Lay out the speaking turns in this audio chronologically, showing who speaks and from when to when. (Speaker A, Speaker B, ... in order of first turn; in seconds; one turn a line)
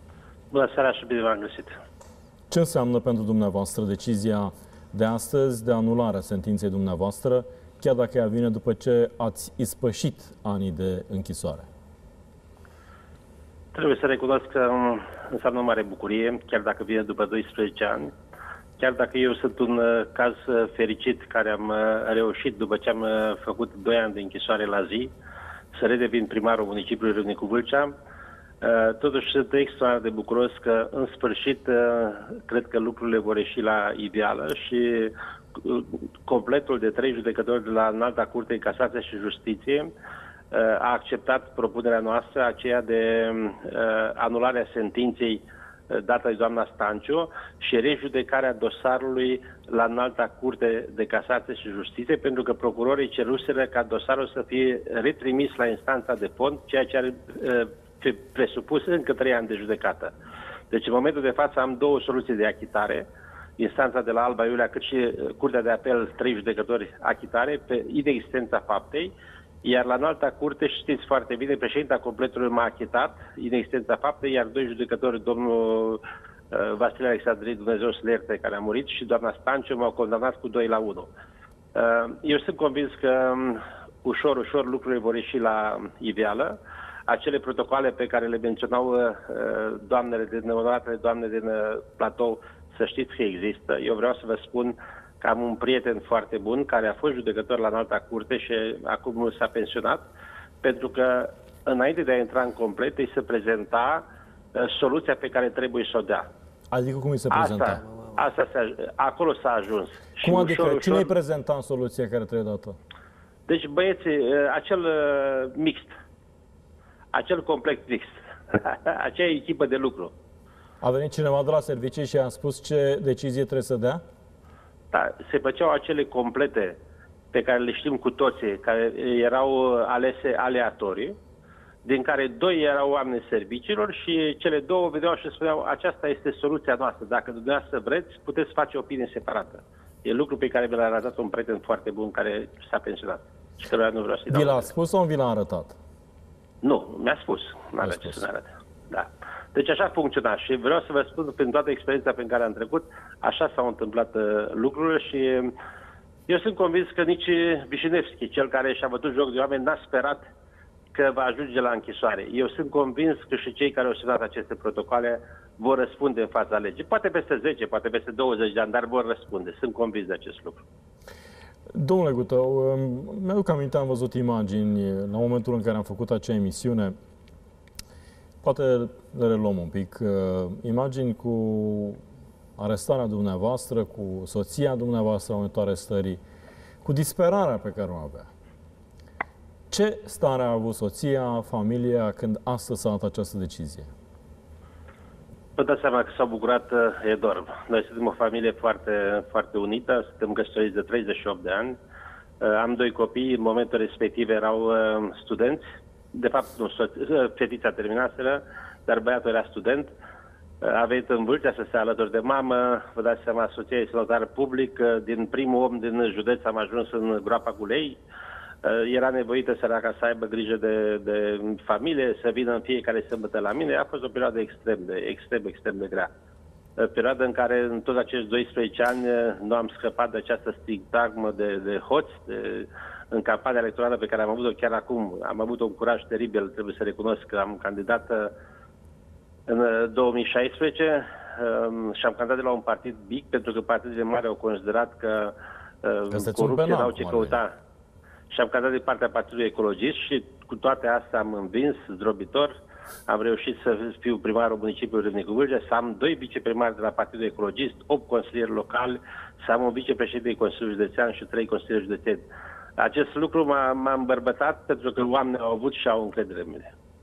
Speaker A: 0.5-1.7
Speaker B: 2.5-11.7
Speaker A: 13.7-18.1
Speaker A: 18.8-25.1
Speaker A: 25.7-27.9
Speaker A: 28.6-39.9
Speaker A: 40.5-60.1
Speaker A: 60.7-63.0
Speaker A: 63.6-69.1
Speaker A: 69.6-81.1
Speaker A: 81.7-86.5
Speaker A: 87.1-100.0
Speaker A: 100.6-104.0
Speaker A: 104.5-106.3
Speaker B: 106.7-107.8
Speaker A: 107.3-111.1
Speaker B: 110.2-112.8
Speaker A: 113.5-115.9
Speaker A: 117.1-120.1
Speaker B: 120.8-124.0
Speaker A: 124.9-126.8
Speaker A: 127.3-131.2
Speaker A: 131.8-144.7
Speaker B: 144.3-145.7
Speaker A: 146.6-155.5
Speaker B: 147.8-148.2
Speaker A: 156.3-160.2
Speaker A: 160.9-170.6
Speaker B: 171.7-176.9
Speaker B: 178.4-182.0
Speaker B: 182.6-186.2
Speaker B: 186.8-188.3
Speaker B: 189.7-193.9
Speaker A: 195.6-201.8
Speaker A: 202.4-209.9
Speaker A: 210.6-218.0
Speaker A: 218.6-226.1
Speaker A: 226.8-238.3
Speaker A: 239.5-247.5
Speaker B: 246.1-247.4
Speaker A: 248.3-252.5
Speaker A: 253.1-262.2
Speaker A: 262.8-266.7